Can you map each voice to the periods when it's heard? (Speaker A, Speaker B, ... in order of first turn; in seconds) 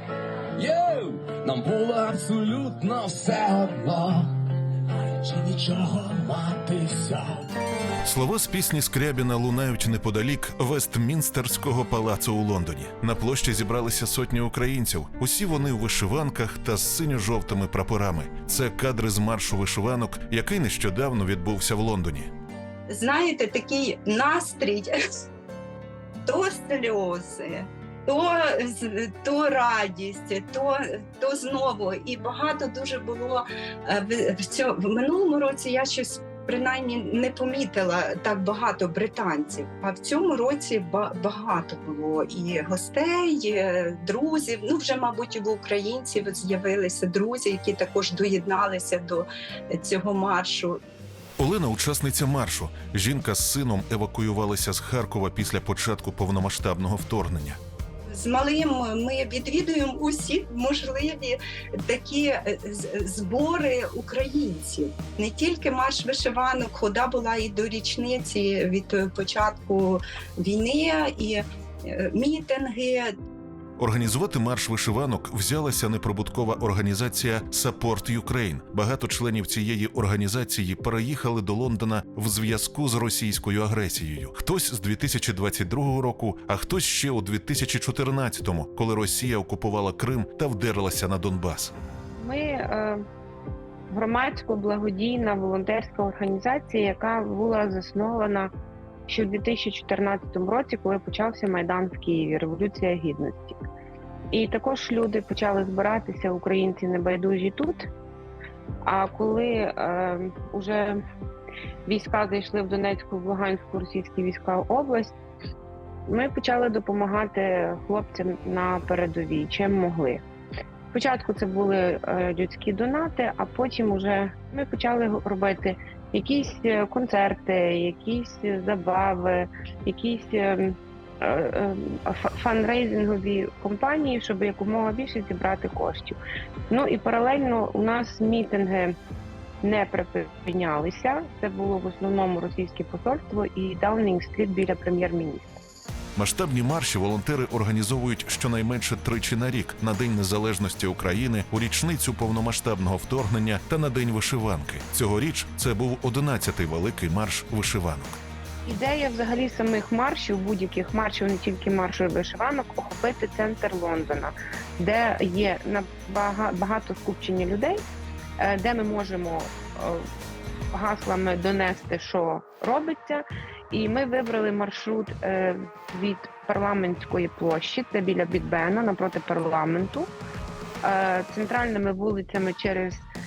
Speaker A: 0.6-7.5
Speaker B: 8.0-22.3, 51.4-57.6, 73.8-91.7, 146.2-158.2
Speaker C: 22.9-24.9, 26.3-50.8, 58.1-73.1
Speaker D: 92.2-93.0, 93.9-98.5, 99.1-103.6, 104.3-107.8, 108.8-111.0, 111.9-115.1, 116.1-120.2, 120.9-139.0, 139.6-145.6, 158.7-167.8, 168.4-170.1, 170.7-180.1, 180.8-183.1